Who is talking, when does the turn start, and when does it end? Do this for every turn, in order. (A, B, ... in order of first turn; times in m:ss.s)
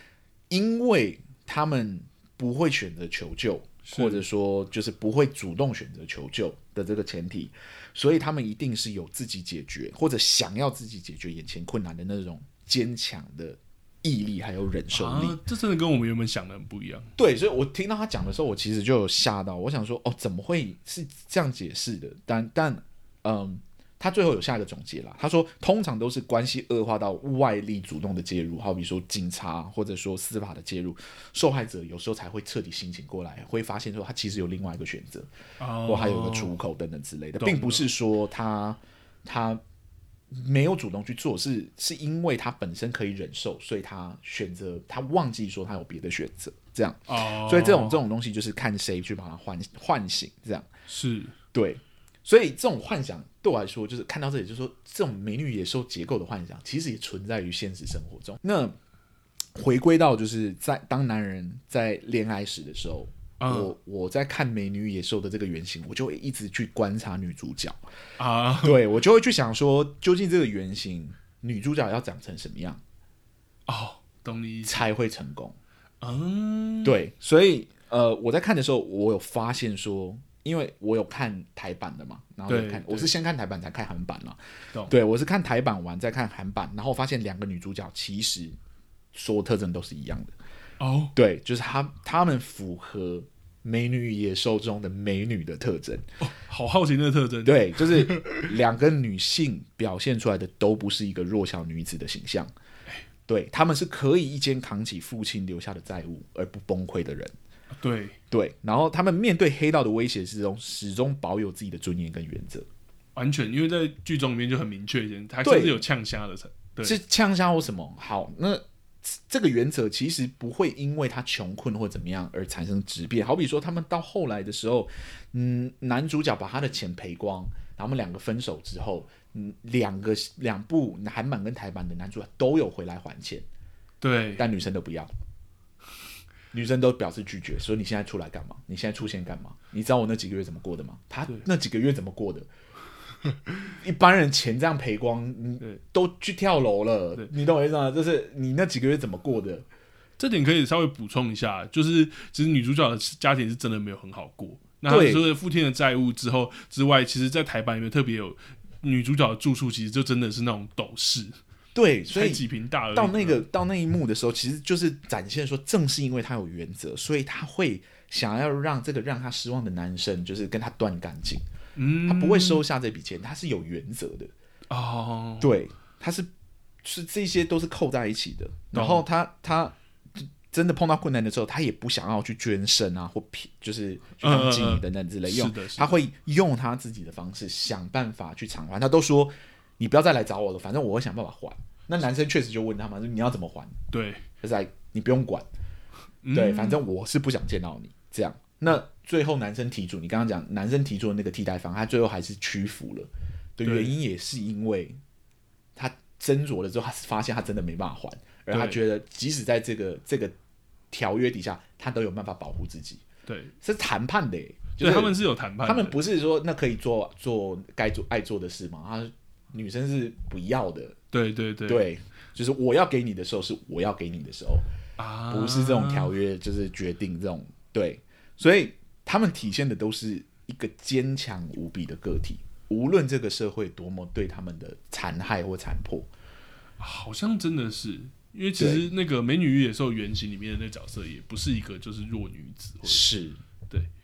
0:00.5-0:15.4 A
0:03.8-0:04.2 B
0:14.9-0:17.1 B
0:17.2-0:35.3 A
0:35.6-0:36.6 B
0:35.8-0:39.6 A
0:37.4-0:37.8 B
0:40.3-0:50.7 A
0:47.1-0:48.0 B
0:50.9-0:51.3 B
0:51.5-0:58.7 A
0:59.6-1:07.8 A
1:03.4-1:03.7 B
1:08.2-1:08.8 B
1:08.6-1:12.8 A
1:13.7-1:14.8 B
1:14.6-1:15.6 A
1:16.0-1:17.0 B
1:16.8-1:28.6 A
1:22.5-1:23.1 B
1:29.1-1:30.3 A
1:30.8-1:31.1 B
1:31.1-1:36.0 A
1:36.2-1:38.4 B
1:37.4-1:42.5 A
1:43.3-1:47.3 A
1:47.7-1:48.2 B
1:48.3-1:52.7 A
1:53.1-1:57.0 B
1:55.4-1:55.8 A
1:56.8-2:13.4 A
2:14.0-2:14.4 B
2:14.4-2:15.1 A
2:16.5-2:22.5 A
2:23.8-2:29.6 A
2:30.2-2:41.4 B
2:34.9-2:35.3 A
2:41.7-2:42.4 A
2:42.1-2:43.4 B
2:42.9-2:51.4 A
2:51.7-2:52.6 B
2:52.0-2:54.3 A
2:54.7-2:55.5 B
2:55.4-2:56.3 A
2:56.8-3:13.8 A
2:58.7-2:59.0 B
3:04.2-3:05.9 B
3:13.9-3:14.2 B
3:14.4-3:15.4 A
3:16.2-3:16.8 B
3:16.3-3:25.0 A
3:23.6-3:24.0 B
3:25.8-3:30.3 A
3:28.5-3:28.8 B
3:30.9-3:33.0 A
3:33.2-3:33.5 B
3:33.6-3:41.0 A
3:34.8-3:36.0 B
3:41.1-3:41.8 B
3:41.6-3:44.7 A
3:45.0-3:46.1 B
3:45.3-3:56.1 A
3:56.8-4:03.0 B
3:58.6-3:58.9 A
4:02.8-4:03.4 A